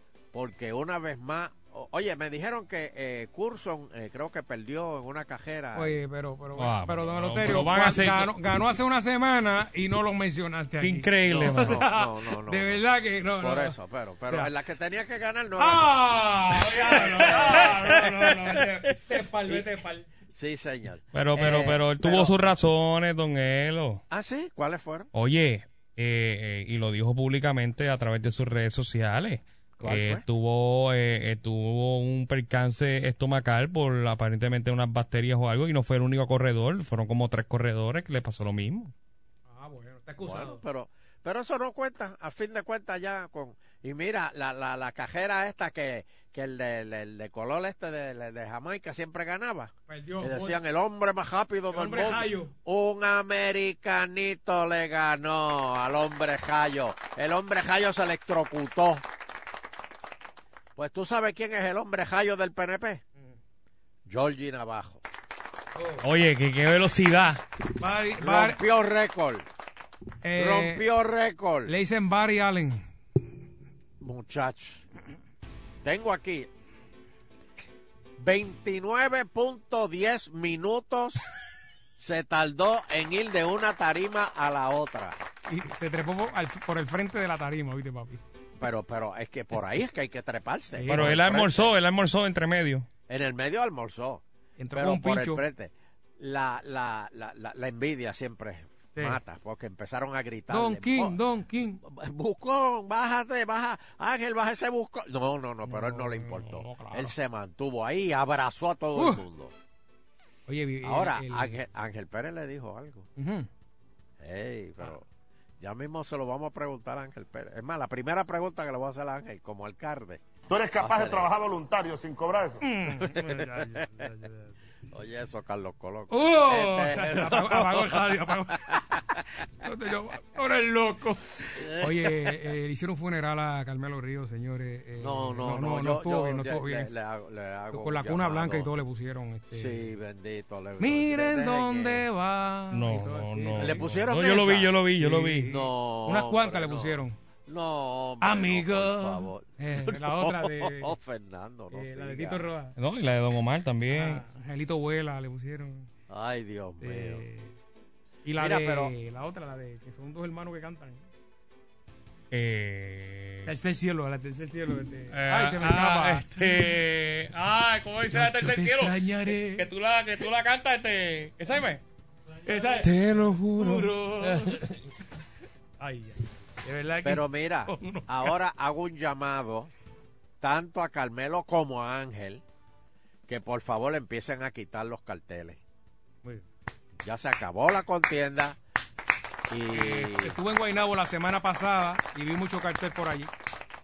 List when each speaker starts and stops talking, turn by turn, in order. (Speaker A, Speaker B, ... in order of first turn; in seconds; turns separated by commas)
Speaker A: 0.3-6.0, Speaker B: 5.8-13.8, Speaker C: 6.6-8.3, Speaker C: 10.8-11.8, Speaker A: 11.3-12.8, Speaker A: 13.4-15.9, Speaker B: 14.3-14.5, Speaker B: 15.6-20.1, Speaker C: 16.6-18.8, Speaker A: 16.8-18.1, Speaker A: 20.3-22.4, Speaker C: 21.1-24.0, Speaker A: 24.1-25.1, Speaker C: 25.1-38.9, Speaker A: 29.8-30.2, Speaker B: 39.5-40.6, Speaker A: 40.2-59.0, Speaker B: 49.9-50.6, Speaker B: 51.7-52.5, Speaker A: 60.8-63.0, Speaker A: 64.1-65.0, Speaker B: 65.8-66.0, Speaker C: 66.0-67.4, Speaker B: 67.8-68.6, Speaker A: 68.2-69.5, Speaker B: 70.2-70.8, Speaker A: 70.4-71.7, Speaker B: 71.7-72.8, Speaker A: 74.0-74.8, Speaker A: 75.8-76.5, Speaker A: 78.2-81.3, Speaker A: 82.0-85.2, Speaker B: 85.5-88.2, Speaker A: 88.6-91.7, Speaker B: 90.7-91.2, Speaker C: 90.8-92.9, Speaker A: 93.1-94.2, Speaker B: 94.6-95.4, Speaker A: 94.7-101.2, Speaker B: 98.9-99.2, Speaker B: 100.5-101.8, Speaker A: 101.8-109.5, Speaker B: 105.7-107.2, Speaker B: 108.9-109.2, Speaker B: 110.5-111.6, Speaker A: 110.8-113.1, Speaker B: 113.2-113.5, Speaker A: 114.2-115.1, Speaker A: 115.6-120.2, Speaker D: 120.5-122.6, Speaker A: 120.8-121.3, Speaker B: 122.6-124.6, Speaker A: 122.9-124.1, Speaker A: 124.9-128.0, Speaker B: 126.1-128.8, Speaker A: 128.5-129.0, Speaker B: 129.6-136.9, Speaker A: 131.6-132.2, Speaker A: 135.0-138.8, Speaker B: 137.7-139.9, Speaker A: 139.5-142.1, Speaker B: 140.8-144.1, Speaker C: 142.7-145.5, Speaker A: 143.6-144.8, Speaker B: 145.0-147.2, Speaker A: 145.4-152.5, Speaker B: 148.2-150.9, Speaker B: 151.7-152.8, Speaker C: 152.8-154.2, Speaker B: 153.9-155.9, Speaker A: 156.1-157.2, Speaker B: 156.8-157.6, Speaker B: 158.2-161.1, Speaker A: 158.4-158.9, Speaker C: 162.3-163.5, Speaker B: 163.4-166.8, Speaker C: 165.1-171.8, Speaker B: 168.1-169.7, Speaker B: 172.4-174.6, Speaker C: 172.6-174.6, Speaker B: 175.8-178.3, Speaker A: 177.0-179.7, Speaker A: 180.4-182.4, Speaker A: 183.3-185.6, Speaker A: 187.0-188.6, Speaker A: 189.5-190.4, Speaker B: 189.7-193.3